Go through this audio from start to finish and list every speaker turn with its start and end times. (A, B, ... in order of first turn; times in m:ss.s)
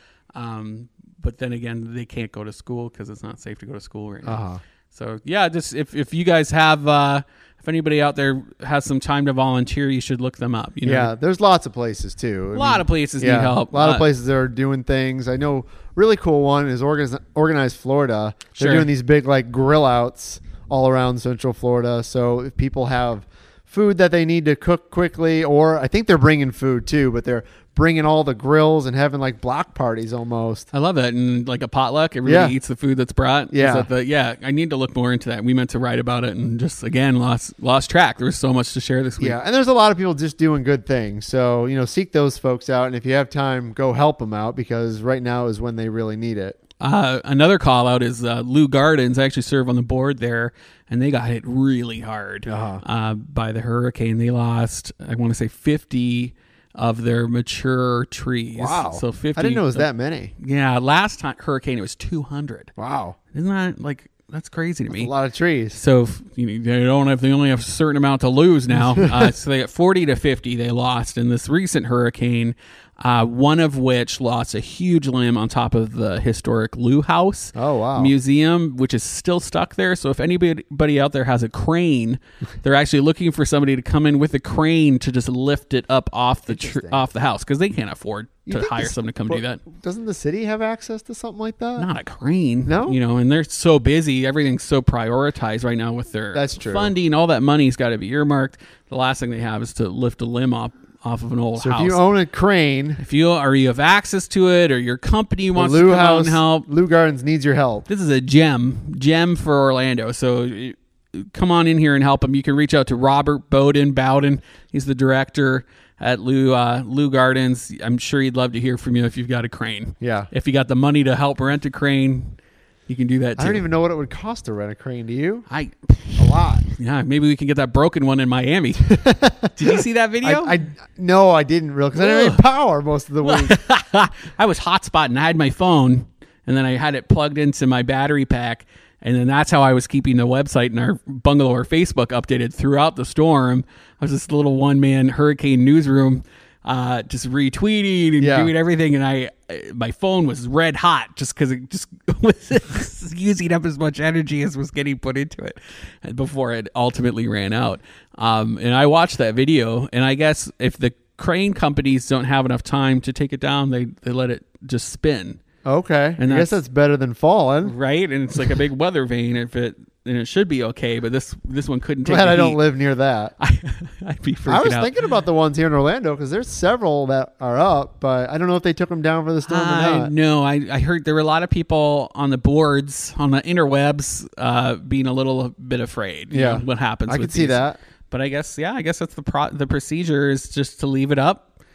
0:00.4-0:11.1 A
0:04.2-0:04.6 B
0:10.8-0:30.7 B
0:12.5-0:14.1 A
0:18.6-0:18.9 A
0:30.7-0:39.4 A
0:32.2-0:32.5 B
0:33.5-0:33.9 B
0:39.2-0:46.6 B
0:46.8-0:59.9 A
0:52.4-0:52.8 B
0:58.6-1:00.3 B
1:00.4-1:02.7 A
1:02.8-1:03.2 B
1:03.3-1:05.1 A
1:04.9-1:05.8 B
1:05.7-1:29.6 A
1:08.7-1:09.3 B
1:17.6-1:18.1 B
1:26.5-1:27.1 B
1:28.5-1:31.9 B
1:31.8-1:42.0 A
1:32.7-1:33.0 B
1:36.3-1:36.9 B
1:41.6-1:43.0 B
1:43.0-1:46.7 A
1:45.6-1:47.9 B
1:47.9-2:02.4 A
2:00.0-2:00.3 B
2:02.9-2:03.6 A
2:03.4-2:05.5 B
2:05.5-2:08.9 A
2:06.2-2:06.6 B
2:08.8-2:13.6 B
2:09.5-2:10.6 A
2:12.0-2:12.4 A
2:13.2-2:45.4 A
2:28.2-2:28.5 B
2:45.6-2:47.8 B
2:46.2-2:46.6 A
2:47.6-2:52.6 A
2:52.1-2:53.3 B
2:53.4-2:54.9 A
2:54.5-3:00.1 B
2:59.4-3:11.4 A
3:06.3-3:07.8 B